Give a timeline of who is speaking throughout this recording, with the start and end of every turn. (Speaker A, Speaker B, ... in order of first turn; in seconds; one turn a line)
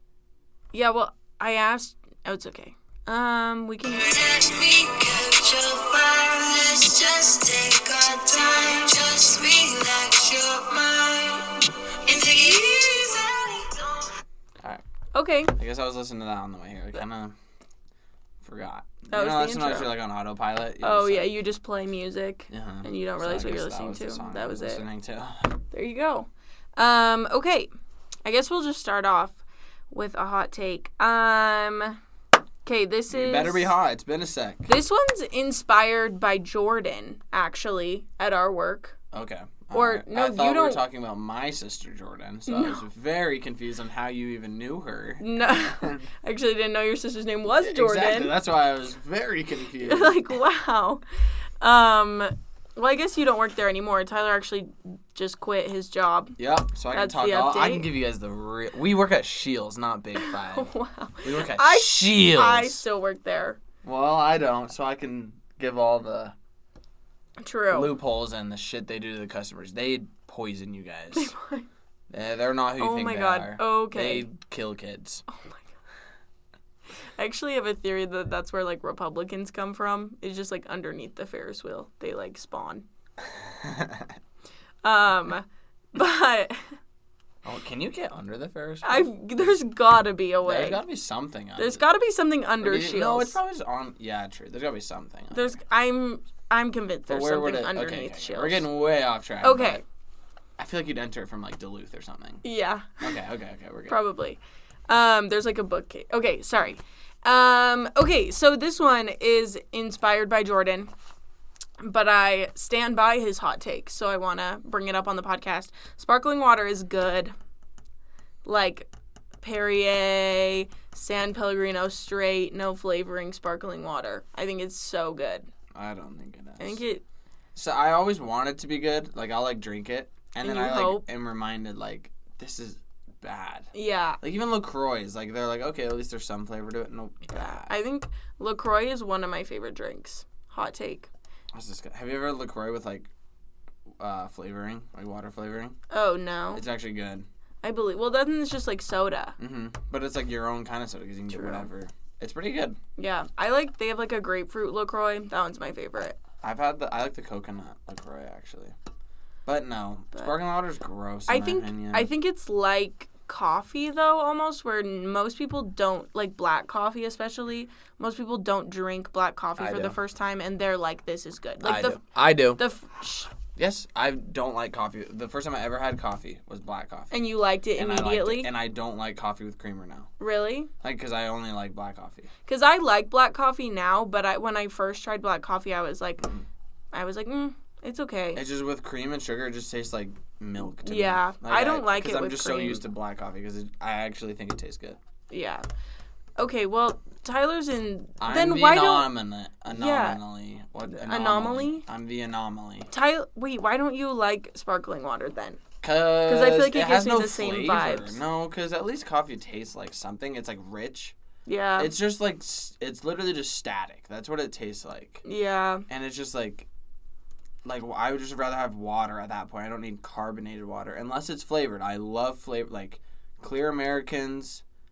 Speaker A: 0.7-4.1
Speaker B: 3.9-14.1
Speaker A: 15.1-15.5
Speaker C: 15.5-17.3
Speaker C: 18.4-21.3
Speaker A: 19.1-19.9
Speaker A: 20.8-24.9
Speaker C: 22.5-25.6
Speaker A: 25.7-27.7
Speaker A: 28.2-29.4
Speaker A: 29.9-32.0
Speaker A: 32.6-33.7
Speaker C: 33.1-34.7
Speaker A: 34.7-39.0
Speaker C: 39.1-46.0
Speaker A: 39.7-40.8
Speaker A: 42.5-42.8
Speaker A: 45.2-48.3
Speaker C: 47.5-50.2
Speaker A: 49.8-51.0
Speaker A: 51.6-56.4
Speaker C: 56.4-60.7
Speaker A: 56.9-57.9
Speaker A: 60.2-63.6
Speaker C: 61.2-62.8
Speaker C: 63.8-66.3
Speaker A: 67.4-67.9
Speaker C: 67.7-71.3
Speaker A: 71.1-71.7
Speaker C: 72.1-75.2
Speaker A: 72.8-74.3
Speaker A: 75.3-75.7
Speaker A: 77.2-82.8
Speaker C: 83.4-84.1
Speaker A: 84.8-86.7
Speaker C: 87.4-89.6
Speaker A: 88.8-90.8
Speaker C: 90.4-91.8
Speaker A: 91.5-93.4
Speaker C: 92.6-95.6
Speaker A: 95.3-98.7
Speaker C: 97.1-99.8
Speaker A: 99.4-99.8
Speaker C: 100.6-102.4
Speaker A: 102.4-103.1
Speaker C: 103.0-104.0
Speaker A: 103.9-110.9
Speaker A: 111.8-117.3
Speaker A: 118.4-118.9
Speaker A: 119.4-125.5
Speaker C: 125.7-126.8
Speaker A: 126.6-127.0
Speaker C: 127.5-133.7
Speaker A: 130.4-131.1
Speaker A: 133.7-134.2
Speaker C: 134.2-137.7
Speaker A: 137.3-141.1
Speaker C: 141.5-143.1
Speaker C: 144.0-145.8
Speaker A: 145.9-146.6
Speaker C: 146.5-147.3
Speaker A: 147.6-149.3
Speaker C: 149.4-152.8
Speaker A: 151.3-151.7
Speaker A: 153.0-156.2
Speaker C: 156.4-158.7
Speaker C: 159.4-162.1
Speaker A: 161.3-172.0
Speaker C: 169.6-170.0
Speaker C: 171.6-172.6
Speaker A: 172.6-173.3
Speaker C: 173.5-180.1
Speaker A: 177.1-178.5
Speaker A: 180.2-180.7
Speaker C: 180.8-182.3
Speaker A: 182.4-186.3
Speaker A: 186.9-188.4
Speaker C: 188.3-195.0
Speaker A: 190.8-192.8
Speaker A: 195.3-195.6
Speaker A: 196.4-199.1
Speaker C: 198.2-202.9
Speaker A: 199.7-200.2
Speaker A: 200.8-201.8
Speaker A: 202.9-205.6
Speaker C: 205.8-211.1
Speaker A: 206.2-208.2
Speaker A: 211.4-211.9
Speaker C: 211.8-215.2
Speaker A: 215.2-215.8
Speaker C: 215.9-216.7
Speaker C: 217.6-224.6